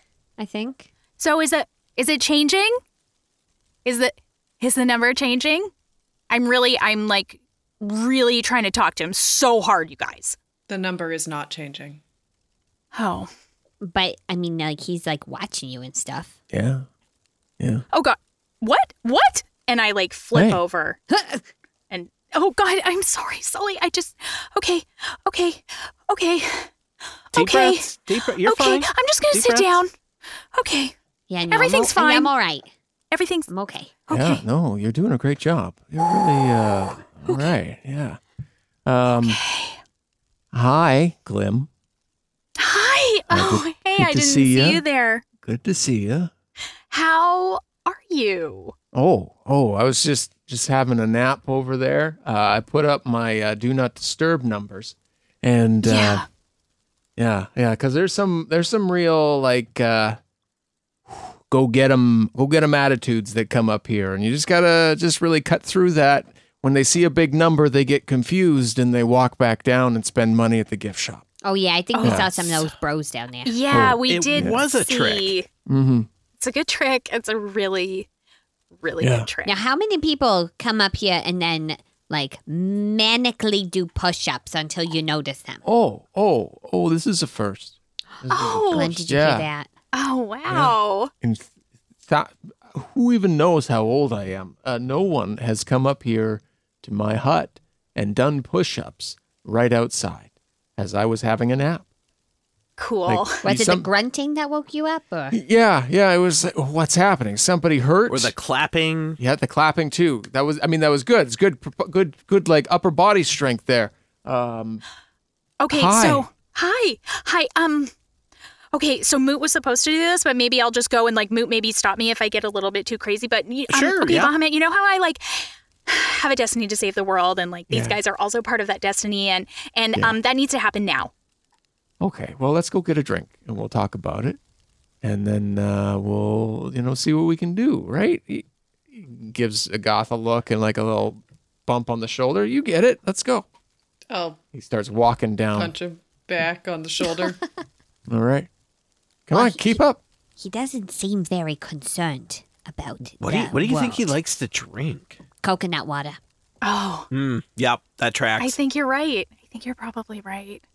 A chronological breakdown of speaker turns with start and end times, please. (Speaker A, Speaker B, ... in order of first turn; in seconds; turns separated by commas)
Speaker A: 0.4-0.9, Speaker B: 1.2-2.8, Speaker B: 3.8-5.7, Speaker B: 6.3-10.4, Speaker C: 10.7-12.0, Speaker B: 12.9-13.3, Speaker A: 13.8-16.4, Speaker D: 16.5-16.9, Speaker B: 17.9-21.0, Speaker D: 20.3-20.6, Speaker A: 21.1-21.4, Speaker B: 21.9-26.7, Speaker B: 27.3-29.9, Speaker E: 27.3-29.8, Speaker B: 30.5-30.9, Speaker A: 31.3-32.7, Speaker B: 31.5-32.3, Speaker B: 33.1-33.5, Speaker A: 33.5-33.9, Speaker B: 34.1-34.4, Speaker D: 34.1-38.2, Speaker D: 38.9-39.4, Speaker B: 39.2-39.8, Speaker D: 40.5-41.7, Speaker B: 42.6-45.2, Speaker D: 43.3-44.8, Speaker D: 45.4-46.3, Speaker B: 46.9-48.7, Speaker D: 48.9-56.2, Speaker B: 55.8-56.2, Speaker D: 57.2-60.2, Speaker D: 61.1-71.2, Speaker A: 71.4-73.6, Speaker B: 71.9-72.3, Speaker D: 72.0-72.6, Speaker B: 73.4-75.5, Speaker D: 73.7-74.6, Speaker E: 74.1-75.3, Speaker D: 75.7-76.1, Speaker B: 76.4-78.1, Speaker B: 78.8-79.6, Speaker D: 79.0-79.3, Speaker A: 79.4-85.6, Speaker D: 85.6-89.5, Speaker B: 88.3-88.9, Speaker A: 88.5-89.7, Speaker B: 89.9-91.1, Speaker D: 90.5-91.5, Speaker D: 92.0-101.8, Speaker B: 102.8-103.4, Speaker D: 103.0-103.9, Speaker A: 103.4-105.4, Speaker D: 105.3-108.3, Speaker E: 108.1-109.2, Speaker D: 109.2-114.8, Speaker B: 115.6-117.9, Speaker D: 115.7-116.3, Speaker B: 118.7-131.1, Speaker E: 123.7-124.3, Speaker D: 127.7-128.0, Speaker D: 132.0-134.4, Speaker D: 135.0-143.4, Speaker C: 144.1-144.4, Speaker D: 144.5-145.7, Speaker C: 145.5-147.4, Speaker D: 148.1-148.5, Speaker D: 149.3-150.0, Speaker A: 149.3-149.8, Speaker A: 150.4-154.1, Speaker E: 153.2-155.2, Speaker A: 155.4-156.2, Speaker B: 156.6-157.1, Speaker E: 157.1-158.6, Speaker B: 158.4-160.6